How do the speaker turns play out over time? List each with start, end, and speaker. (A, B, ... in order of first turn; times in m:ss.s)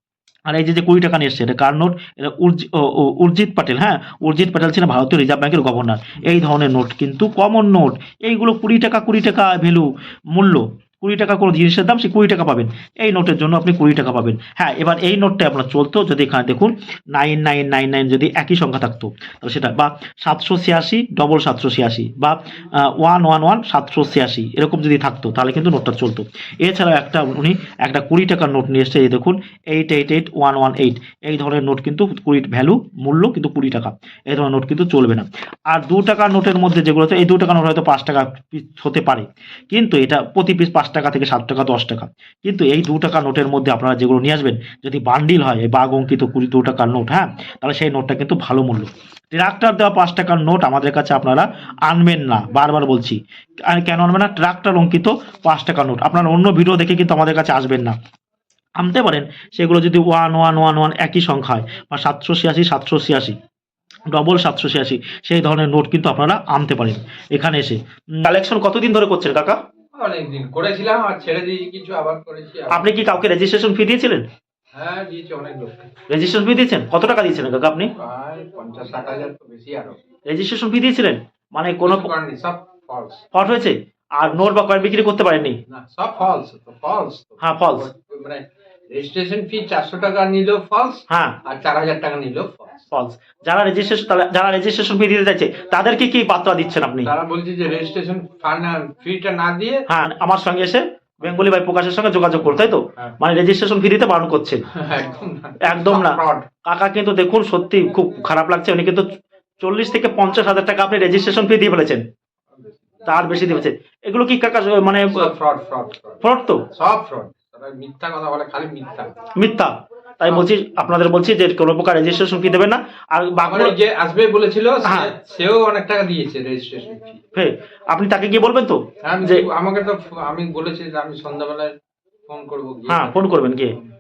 0:00.5-0:58.0 A
0:58.8-1:03.4 A
1:04.1-1:09.6 A
1:09.9-1:13.1 B
1:12.7-1:14.2 A
1:14.7-1:15.9 B
1:16.1-1:17.9 A
1:18.0-1:20.0 B
1:20.3-1:22.1 A
1:21.8-1:23.2 B
1:23.3-1:25.6 A
1:25.7-1:32.8 B
1:27.4-1:27.9 A
1:31.1-1:31.4 A
1:32.9-1:37.1 A
1:37.0-1:39.8 B
1:39.9-1:44.6 A
1:44.7-1:46.5 B
1:45.6-1:49.1 A
1:49.6-1:52.0 A
1:52.5-1:53.4 B
1:53.1-1:55.3 A
1:54.9-1:59.2 B
1:56.2-1:56.6 A
1:59.4-2:03.8 A
2:03.4-2:07.2 B
2:04.8-2:05.1 A
2:07.4-2:09.5 A
2:09.0-2:11.7 B
2:12.3-2:13.8 B
2:12.9-2:13.7 A